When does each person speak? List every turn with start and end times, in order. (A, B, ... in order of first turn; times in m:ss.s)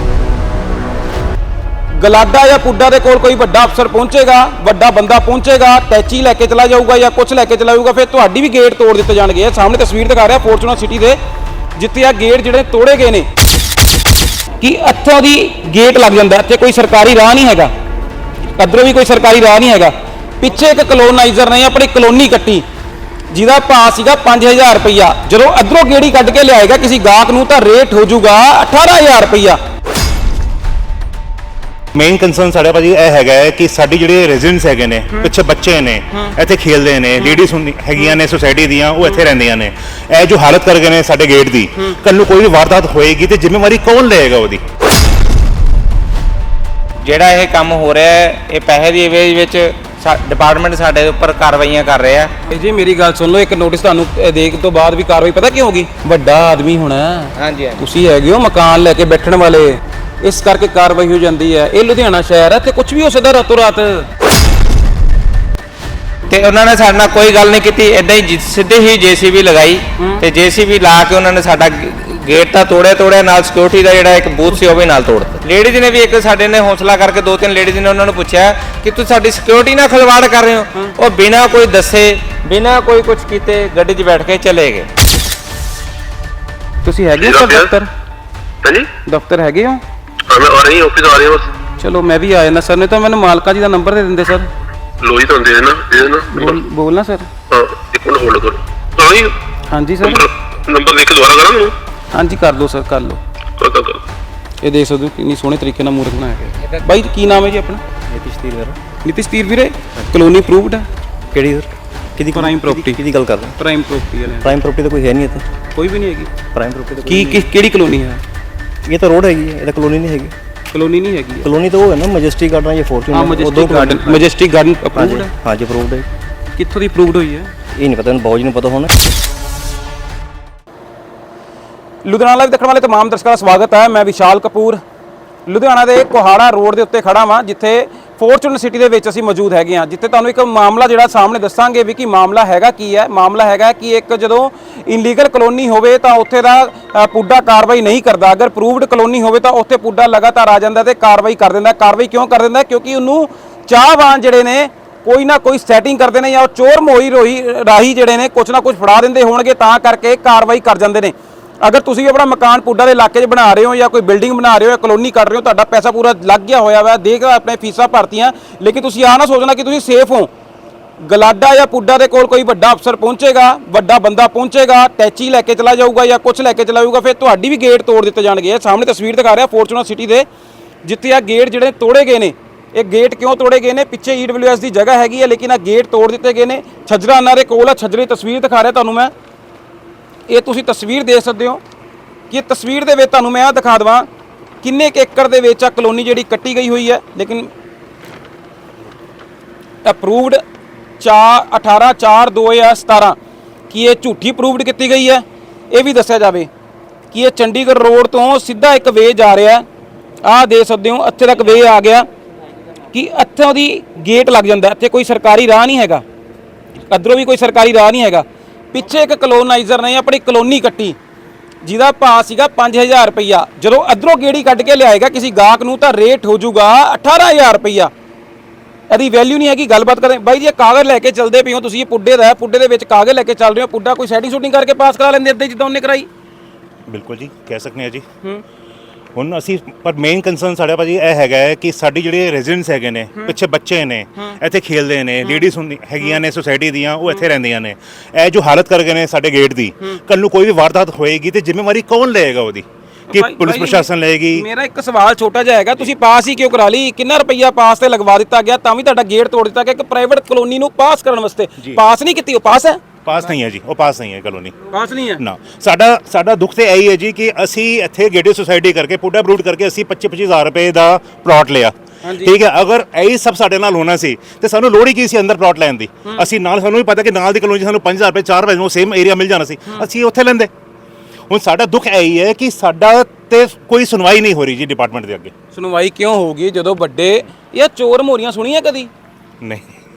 0:02.0-0:11.2 A
0:11.8-0:13.3 A
0:14.6-0:17.7 A
0:18.6-0:22.6 A
0:23.3-0:29.6 A
0:32.0-0:44.6 B
0:47.0-0:52.3 C
0:52.5-1:04.1 A
0:57.4-0:57.8 C
1:06.3-1:24.9 C
1:26.8-1:27.9 A
1:27.2-1:27.7 D
1:29.1-1:29.8 A
1:30.3-1:31.5 D
1:31.8-1:34.5 A
1:35.0-1:36.6 D
1:36.3-1:37.3 A
1:37.5-1:39.3 D
1:39.7-1:40.3 A
1:40.0-1:41.7 D
1:42.1-1:43.2 A
1:43.6-1:44.0 D
1:44.6-1:47.8 A
1:46.6-1:46.9 C
1:48.1-1:48.8 E
1:49.0-1:50.9 A
1:51.3-1:53.6 E
1:52.3-1:53.0 A
1:53.6-1:54.5 A
1:54.4-1:55.4 E
1:55.8-1:56.3 A
1:56.6-1:57.5 E
1:57.1-1:58.2 A
1:58.9-2:00.3 E
2:00.7-2:01.5 A
2:01.4-2:04.3 E
2:03.1-2:05.3 A
2:05.0-2:06.1 E
2:06.6-2:07.5 A
2:07.8-2:08.9 E
2:12.0-2:14.8 A
2:15.5-2:50.3 A
2:51.0-3:00.3 A
3:00.8-3:09.1 A
3:10.3-3:11.6 A
3:12.3-3:14.1 A
3:14.6-3:17.5 A
3:19.8-3:20.4 A
3:21.0-3:23.2 A
3:23.7-3:26.5 A
3:27.1-3:29.6 A
3:30.2-3:32.1 A
3:32.9-3:36.0 A
3:36.9-3:41.0 A
3:41.6-3:47.9 A
3:48.9-3:56.1 A
3:56.9-3:58.0 B
3:59.2-4:14.4 B
4:13.1-4:22.8 A
4:23.0-4:24.5 B
4:24.7-4:25.2 A
4:25.2-4:40.5 B
4:32.0-4:32.3 A
4:41.3-4:45.3 B
4:45.5-4:48.9 A
4:49.4-4:49.7 B